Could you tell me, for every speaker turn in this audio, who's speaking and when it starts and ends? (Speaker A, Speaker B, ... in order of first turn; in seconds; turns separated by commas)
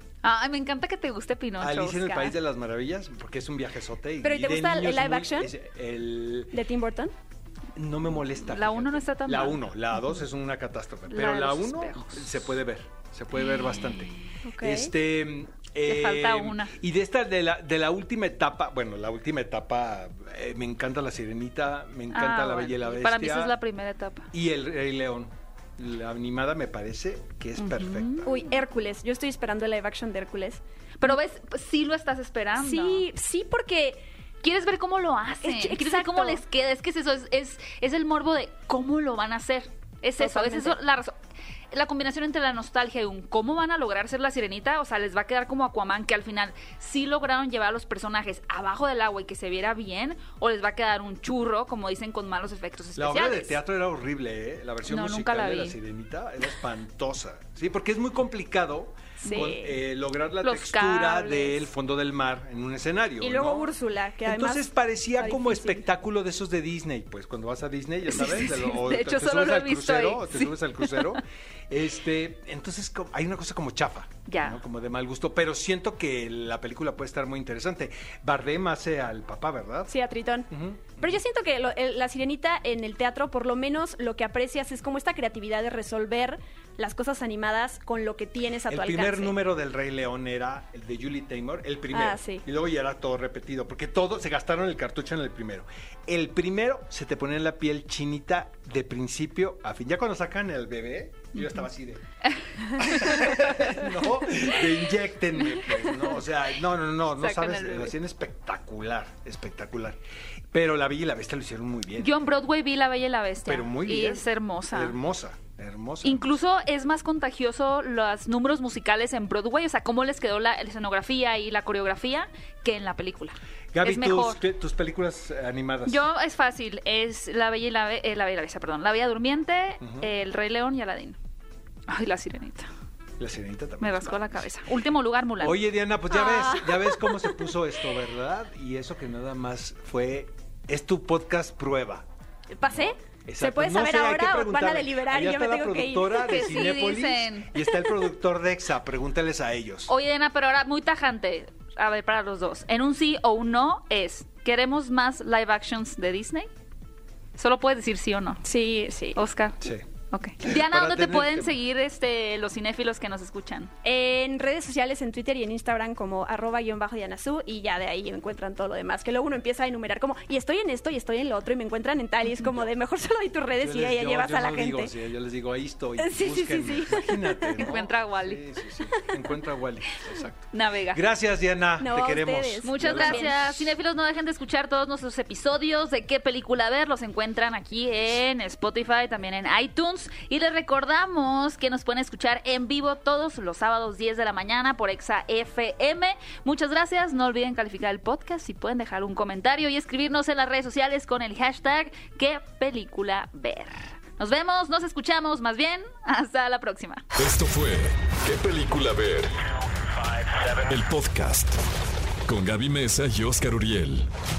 Speaker A: 0.2-2.4, Speaker B: 1.6-6.6, Speaker C: 4.2-5.5, Speaker C: 6.5-7.1, Speaker B: 7.8-23.6, Speaker A: 8.4-10.2, Speaker A: 11.1-12.6, Speaker A: 13.4-14.2, Speaker C: 14.4-14.9, Speaker A: 15.9-16.7, Speaker A: 22.1-24.3, Speaker B: 24.3-28.3, Speaker A: 27.6-28.6, Speaker C: 28.2-30.6, Speaker A: 31.0-33.1, Speaker C: 32.6-34.1, Speaker A: 34.4-41.1, Speaker C: 35.4-36.4, Speaker C: 40.2-40.8, Speaker A: 41.7-53.6, Speaker B: 53.0-63.7, Speaker A: 54.9-55.8, Speaker C: 59.2-59.8, Speaker A: 59.2-59.5, Speaker A: 60.4-61.6, Speaker C: 63.2-65.9, Speaker B: 64.2-79.9, Speaker A: 68.1-71.2, Speaker A: 74.3-74.6, Speaker C: 79.9-89.3, Speaker B: 80.5-81.2, Speaker B: 88.7-102.0, Speaker C: 91.9-92.4, Speaker A: 101.3-101.6, Speaker B: 102.7-110.0, Speaker A: 102.9-103.8, Speaker A: 105.5-106.2, Speaker A: 107.2-108.0, Speaker B: 110.5-112.1, Speaker A: 112.0-115.0, Speaker B: 113.5-116.3, Speaker A: 116.0-124.4, Speaker B: 123.7-126.1, Speaker A: 125.9-131.2, Speaker B: 129.8-130.1, Speaker A: 131.9-132.7, Speaker B: 133.2-134.5, Speaker A: 133.8-136.7, Speaker B: 135.4-142.1, Speaker C: 137.1-137.5, Speaker C: 142.6-146.4, Speaker B: 142.7-149.9, Speaker A: 146.2-147.5, Speaker C: 147.7-148.0, Speaker A: 149.9-156.5, Speaker A: 157.4-158.4, Speaker C: 158.4-159.2, Speaker A: 159.2-163.7, Speaker B: 160.4-161.6, Speaker C: 163.8-174.9, Speaker B: 172.4-172.7, Speaker B: 173.6-183.7, Speaker C: 176.0-177.7, Speaker A: 177.5-178.4, Speaker A: 180.5-181.0, Speaker C: 181.8-183.4, Speaker A: 182.6-207.0, Speaker D: 207.2-209.4, Speaker D: 210.5-211.6, Speaker D: 212.3-214.1